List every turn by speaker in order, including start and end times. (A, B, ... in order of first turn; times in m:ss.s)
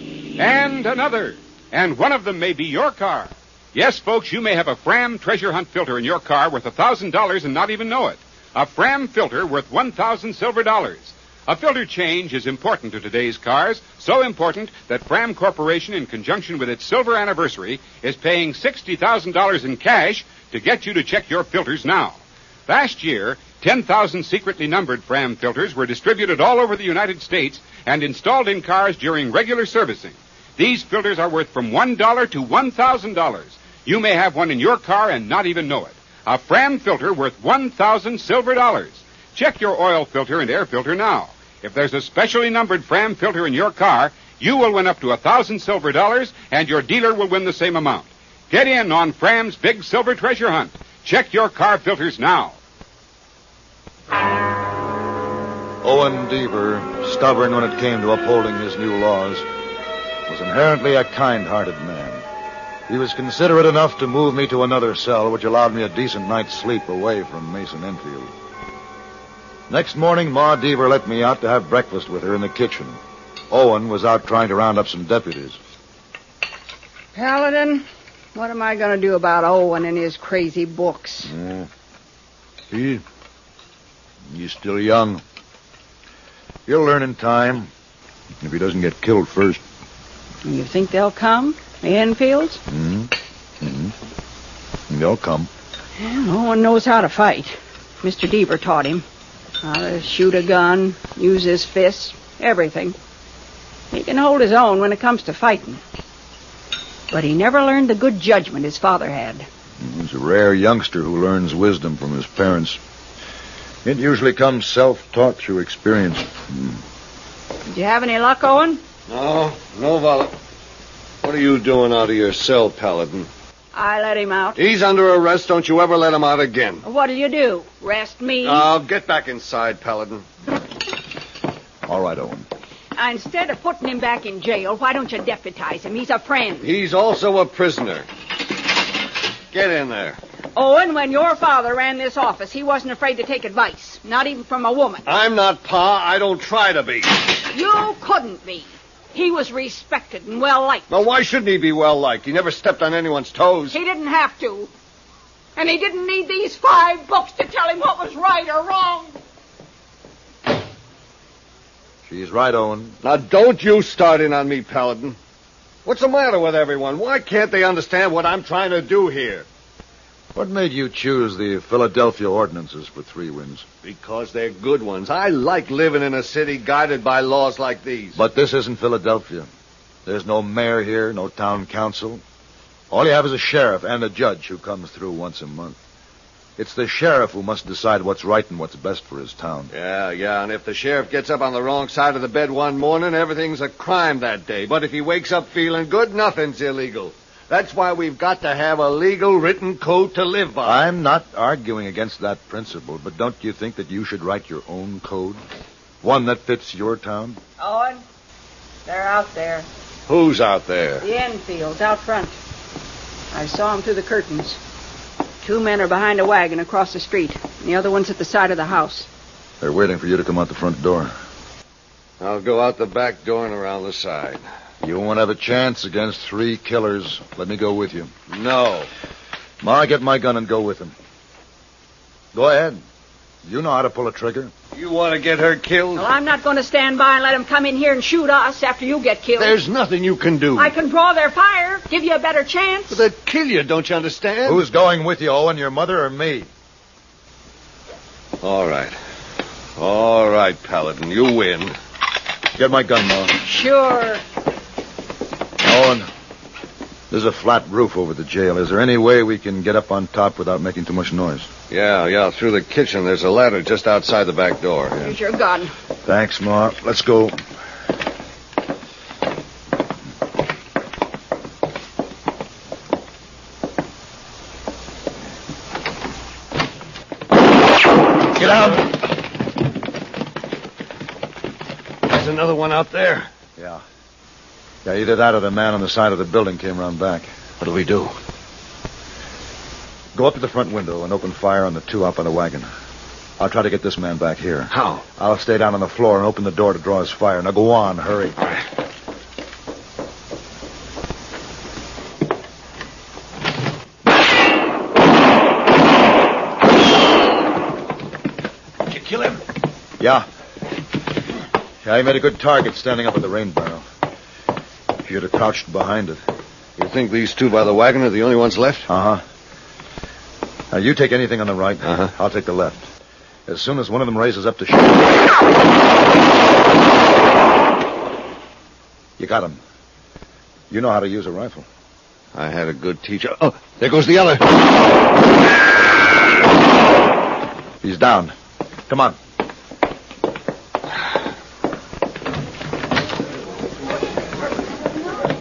0:00.4-0:52.5 A
0:55.8-0:59.4 B
1:00.3-1:02.2 B
1:02.9-1:08.3 B
1:09.7-1:13.0 B
1:13.5-1:15.6 B
1:17.1-1:21.3 C
1:21.3-1:21.7 B
1:22.7-1:23.0 B
1:24.3-1:25.2 B
1:26.7-1:27.7 B
1:28.4-1:29.6 B
1:30.4-1:32.6 C
1:32.7-1:33.9 B
1:34.9-1:35.5 B
1:36.0-1:39.0 C
1:39.6-1:43.0 C
1:43.9-1:45.8 C
1:47.1-1:49.5 C
1:49.8-1:52.8 B
1:53.8-1:56.8 B
1:57.7-1:58.8 C
1:59.1-2:00.3 D
2:01.2-2:03.3 D
2:03.7-2:04.6 C
2:04.6-2:06.8 D
2:06.8-2:08.7 C
2:08.4-2:10.2 D
2:11.8-2:12.4 B
2:13.0-2:16.7 C
2:16.6-2:18.0 D
2:19.5-2:20.2 D
2:20.6-2:25.0 C
2:25.0-2:27.1 D
2:27.5-2:30.9 C
2:30.9-2:33.8 D
2:33.7-2:34.7 C
2:35.6-2:39.1 C
2:42.0-2:43.0 B
2:43.0-2:45.2 D
2:45.8-2:49.4 D
2:50.3-2:53.6 B
2:53.8-2:58.2 D
2:58.2-2:59.5 B
3:00.0-3:02.2 B
3:02.9-3:05.8 B
3:06.6-3:09.7 B
3:09.7-3:20.8 D
3:20.6-3:25.4 B
3:26.0-3:27.4 B
3:27.6-3:28.0 C
3:28.8-3:29.7 C
3:30.1-3:31.0 D
3:31.0-3:32.3 C
3:33.3-3:34.6 C
3:35.4-3:39.1 C
3:39.6-3:41.1 B
3:42.2-3:44.4 D
3:44.8-3:48.1 B
3:48.3-3:48.9 D
3:49.6-3:50.9 B
3:52.3-3:52.8 B
3:53.4-3:54.5 B
3:54.7-3:56.1 D
3:56.0-3:59.6 C
3:59.4-4:00.7 D
4:00.5-4:03.0 C
4:02.9-4:04.6 D
4:04.4-4:06.5 B
4:08.4-4:08.9 D
4:09.8-4:11.7 D
4:12.5-4:13.4 B
4:13.4-4:14.2 C
4:15.6-4:16.1 B
4:17.1-4:21.5 B
4:21.7-4:25.1 D
4:25.0-4:25.7 C
4:26.0-4:27.4 B
4:38.3-4:38.9 B
4:42.0-4:43.3 D
4:43.6-4:43.8 B
4:44.8-4:47.3 B
4:47.6-4:48.1 D
4:50.1-4:52.7 B
4:53.4-4:58.5 B
4:54.7-4:55.0 D
5:10.0-5:10.2 B
5:11.8-5:13.8 B
5:15.0-5:16.2 B
5:16.8-5:18.9 D
5:18.9-5:19.2 B
5:20.7-5:22.9 B
5:21.8-5:22.1 D
5:23.5-5:25.1 B
5:29.2-5:29.6 B
5:30.7-5:31.6 B
5:32.3-5:34.6 D
5:37.8-5:38.3 B
5:38.9-5:39.2 B